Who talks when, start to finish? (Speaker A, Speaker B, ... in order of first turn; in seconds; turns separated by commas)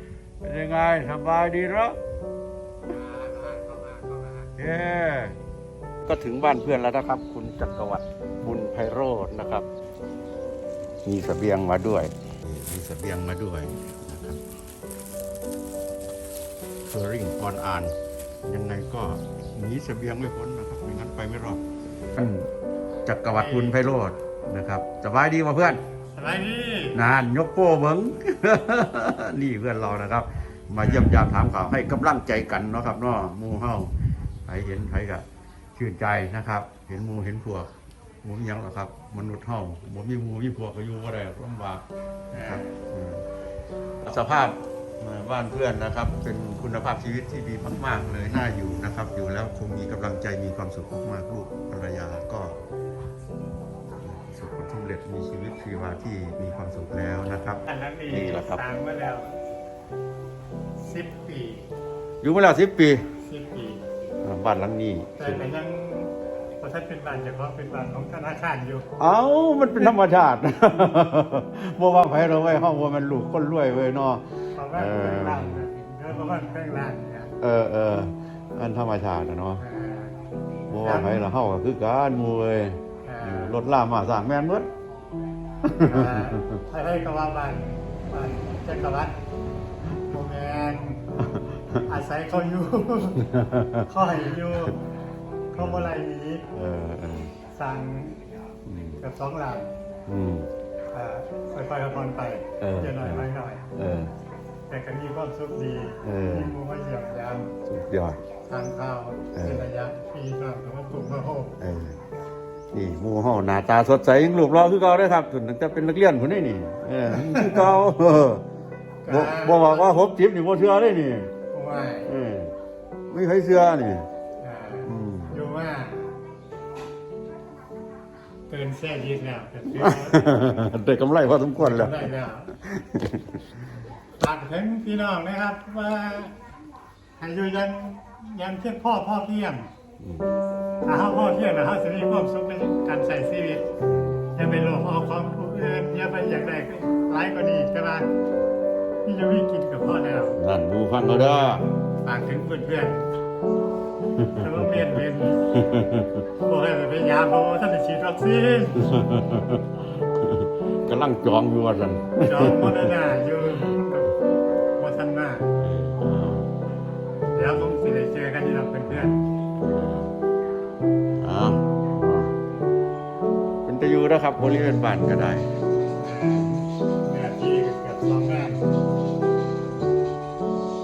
Speaker A: 0.4-2.0, Speaker B: 2.9-4.5, Speaker A: 4.5-5.4, Speaker A: 6.0-9.7, Speaker A: 11.0-14.4, Speaker A: 16.9-21.6, Speaker A: 22.1-22.5, Speaker A: 23.1-25.8, Speaker B: 23.3-23.8, Speaker B: 26.1-27.0, Speaker A: 26.9-33.9, Speaker B: 30.8-31.1, Speaker A: 34.5-37.7, Speaker A: 38.2-41.8, Speaker B: 42.3-42.7, Speaker A: 42.3-43.2, Speaker A: 44.0-52.5, Speaker A: 54.0-58.6, Speaker B: 57.7-59.4, Speaker B: 60.8-61.6, Speaker A: 62.2-63.1, Speaker B: 63.2-63.8, Speaker A: 64.2-65.4, Speaker B: 65.2-68.9, Speaker A: 69.0-75.6, Speaker B: 74.5-77.3, Speaker A: 77.4-79.6, Speaker B: 79.6-80.2, Speaker A: 80.7-84.7, Speaker B: 80.8-81.3, Speaker B: 83.0-83.6, Speaker A: 85.6-86.6, Speaker B: 85.7-89.2, Speaker B: 90.1-91.0, Speaker A: 91.3-91.8, Speaker B: 91.9-93.2, Speaker A: 93.2-93.9, Speaker B: 93.9-94.8, Speaker B: 95.5-96.5, Speaker A: 95.6-95.9, Speaker A: 96.5-97.3, Speaker B: 97.5-98.2, Speaker A: 98.7-99.0, Speaker B: 99.0-99.7, Speaker A: 100.1-100.5, Speaker B: 100.9-103.7, Speaker A: 102.6-104.1, Speaker B: 104.7-107.5, Speaker A: 106.0-106.6, Speaker A: 107.7-108.2, Speaker B: 108.5-111.6, Speaker A: 109.3-109.7, Speaker A: 111.6-112.0, Speaker A: 112.7-118.4, Speaker B: 117.1-117.8, Speaker B: 119.0-120.0, Speaker A: 119.1-121.3, Speaker B: 121.5-122.1, Speaker A: 122.1-122.5, Speaker A: 123.1-124.1, Speaker B: 124.4-126.1, Speaker A: 124.8-125.4, Speaker B: 128.5-130.4, Speaker A: 129.8-133.4, Speaker B: 131.6-132.5, Speaker B: 134.2-136.3, Speaker B: 137.2-139.7, Speaker A: 140.0-140.3, Speaker B: 140.8-143.6, Speaker A: 143.9-144.2, Speaker B: 144.3-148.1, Speaker B: 149.0-150.4, Speaker A: 150.3-151.6, Speaker B: 152.0-153.1, Speaker A: 154.2-154.6, Speaker B: 154.4-155.5, Speaker A: 155.5-156.2, Speaker B: 156.4-158.8, Speaker A: 158.8-162.9, Speaker B: 162.2-164.1, Speaker B: 164.8-165.5, Speaker A: 165.6-166.5, Speaker B: 167.3-169.2, Speaker A: 169.6-170.1, Speaker A: 171.2-172.3, Speaker A: 173.6-175.5, Speaker B: 176.0-178.6